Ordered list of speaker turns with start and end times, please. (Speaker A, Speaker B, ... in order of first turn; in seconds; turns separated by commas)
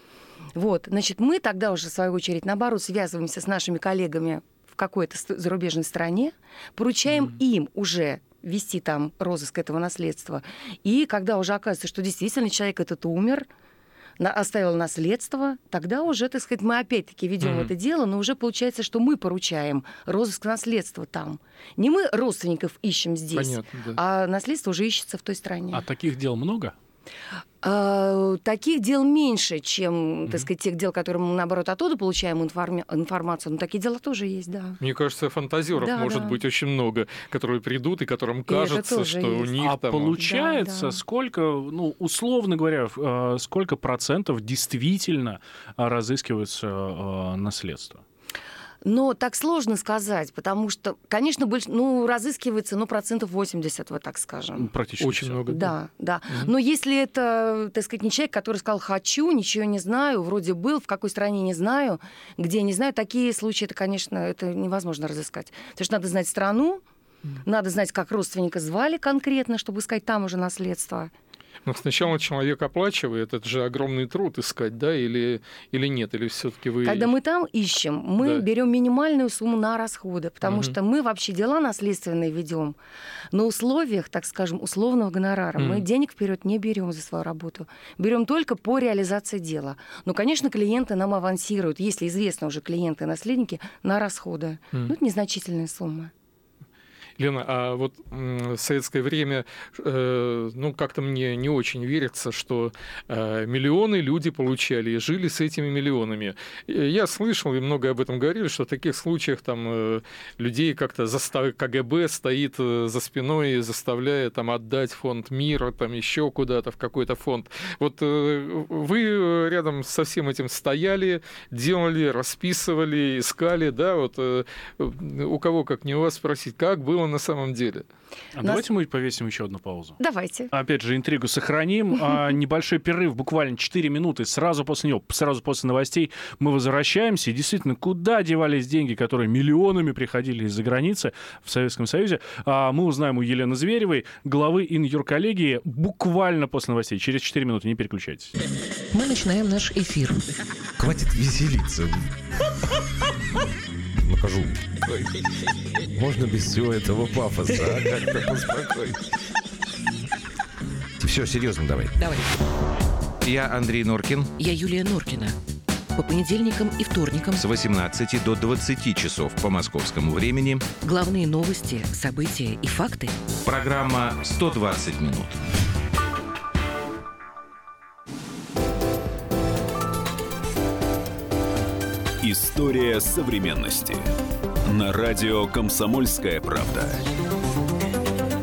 Speaker A: 0.6-13.5, Speaker A: 14.2-25.9, Speaker B: 17.4-17.7, Speaker B: 23.4-24.0, Speaker C: 25.7-26.8, Speaker A: 27.6-34.8, Speaker B: 34.8-40.2, Speaker A: 35.8-36.4, Speaker A: 38.5-39.5, Speaker C: 39.6-48.0, Speaker A: 40.2-41.0, Speaker A: 48.8-54.7, Speaker C: 54.6-55.4, Speaker B: 55.0-55.8, Speaker A: 55.5-66.8, Speaker A: 67.5-71.1, Speaker B: 71.7-77.1, Speaker A: 76.8-82.8, Speaker B: 80.4-80.8, Speaker A: 83.3-96.1, Speaker B: 85.6-85.8, Speaker B: 97.2-127.8, Speaker C: 128.4-130.0, Speaker A: 130.0-130.5, Speaker C: 130.5-148.3, Speaker D: 148.9-150.3, Speaker E: 150.8-152.1, Speaker E: 154.0-155.1, Speaker E: 155.9-159.0, Speaker E: 161.0-162.2, Speaker E: 163.2-164.4, Speaker D: 164.4-165.4, Speaker D: 166.0-167.4, Speaker E: 167.3-170.7, Speaker D: 170.8-173.2, Speaker E: 173.4-175.4, Speaker F: 182.2-184.0, Speaker F: 184.7-187.0